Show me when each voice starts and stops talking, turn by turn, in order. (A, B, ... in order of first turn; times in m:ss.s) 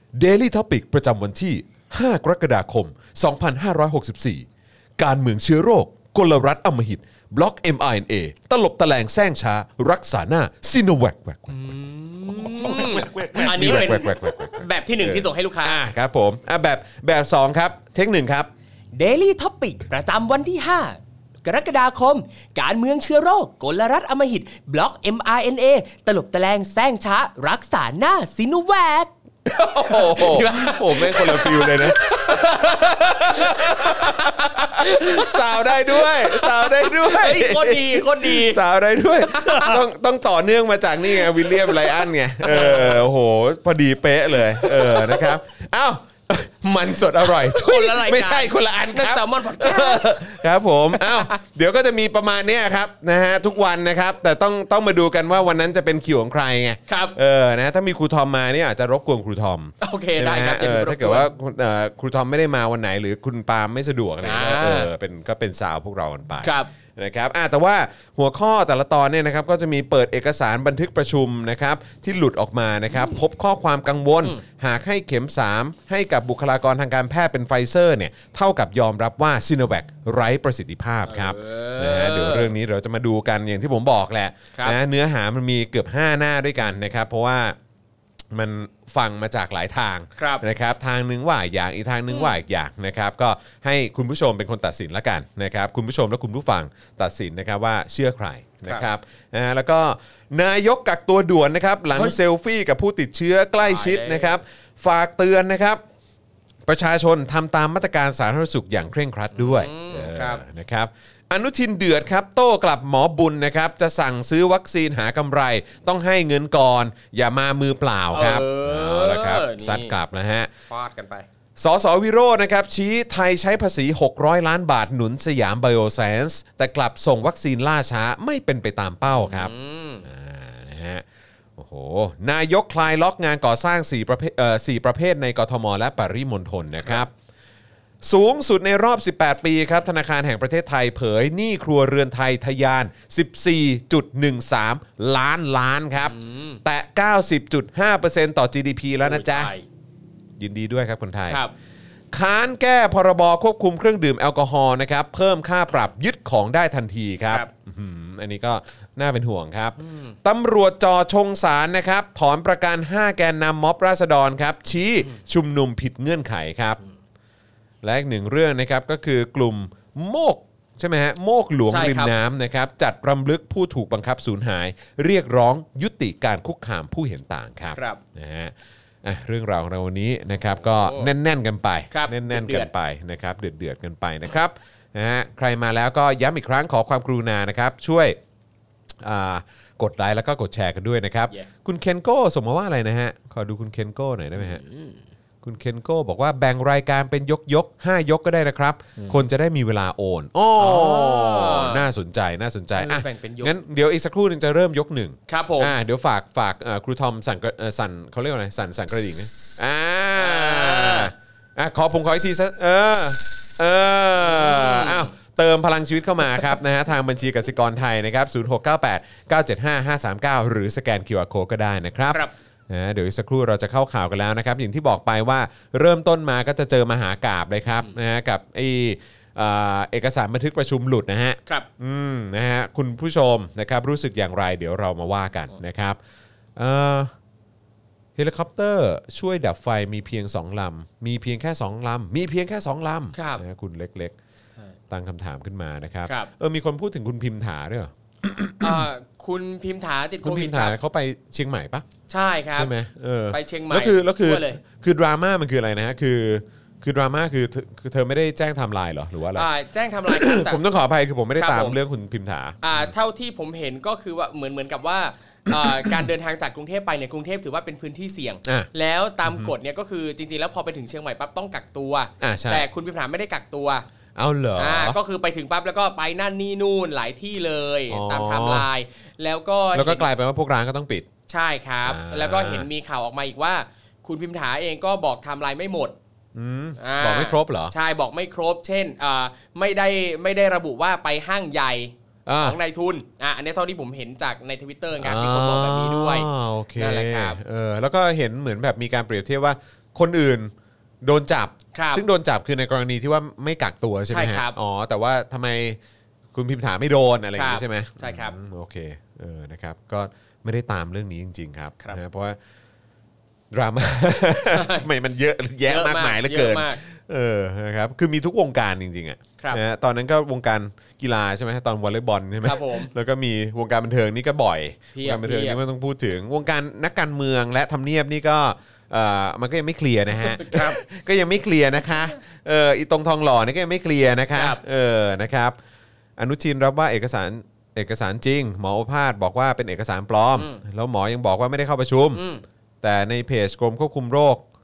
0:00.1-0:04.5 A
0:05.0-0:11.7 A
0:11.5-0:15.8 B
0:12.3-0:18.5 A
0:18.9-0:38.6 B
0:29.5-1:27.6 A
0:39.2-0:39.8 B
0:41.1-0:41.9 B
0:42.4-0:43.0 B
0:44.5-0:45.3 B
0:47.2-0:50.4 B
0:50.9-0:51.4 B
0:56.9-0:57.2 B
0:59.8-1:01.3 B
1:04.2-1:04.9 B
1:06.4-1:06.7 B
1:21.1-1:22.5 B
1:28.3-1:45.8 A
1:30.2-1:30.4 B
1:32.1-1:32.4 B
1:43.6-1:44.4 B
1:46.7-2:00.5 A
1:49.4-1:50.4 B
1:58.1-1:59.9 B
2:00.7-2:01.3 B
2:01.6-2:09.5 A
2:09.1-2:10.1 B
2:10.0-2:11.0 A
2:11.6-2:17.1 A
2:18.0-2:29.5 A
2:26.1-2:26.6 B
2:29.0-2:29.6 B
2:30.4-2:31.4 A
2:32.1-2:46.8 A
2:39.8-2:40.2 B
2:47.8-3:08.2 A
2:51.7-2:52.1 B
2:57.8-2:58.0 B
3:00.6-3:01.1 B
3:01.9-3:02.7 B
3:09.0-3:14.6 A
3:14.6-3:15.0 B
3:15.4-3:56.0 A
3:20.6-3:21.9 B
3:22.8-3:23.5 B
3:25.3-3:25.7 B
3:30.2-3:31.1 B
3:34.2-3:35.1 B
3:56.6-3:57.1 A
3:58.2-4:04.2 A
4:03.1-4:03.4 B
4:04.9-4:08.9 A
4:08.6-4:10.8 B
4:10.2-4:11.9 A
4:12.1-4:12.7 B
4:12.5-4:19.5 A
4:13.3-4:14.6 B
4:19.3-4:20.6 B
4:20.1-4:22.9 A
4:21.4-4:21.8 B
4:22.6-4:33.9 B
4:25.5-4:26.1 A
4:29.2-4:29.5 A
4:32.2-4:32.7 A
4:34.2-4:35.0 A
4:34.6-4:40.1 B
4:37.9-4:38.7 A
4:39.7-4:41.1 A
4:41.3-4:46.0 B
4:41.8-4:42.7 A
4:46.4-4:47.7 A
4:46.8-4:57.4 B
4:52.3-4:52.6 A
4:55.0-5:00.5 A
5:01.0-5:05.8 A
5:01.7-5:02.0 B
5:04.1-5:04.6 B
5:06.3-5:12.4 A
5:07.4-5:08.4 B
5:13.5-5:35.6 A
5:14.5-5:14.9 B
5:15.7-5:16.8 B
5:22.4-5:22.9 B
5:25.0-5:25.6 B
5:30.2-5:30.8 B
5:34.3-5:34.6 B
5:36.2-5:42.2 A
5:40.4-5:40.6 B
5:42.1-5:42.4 B
5:42.8-5:44.4 A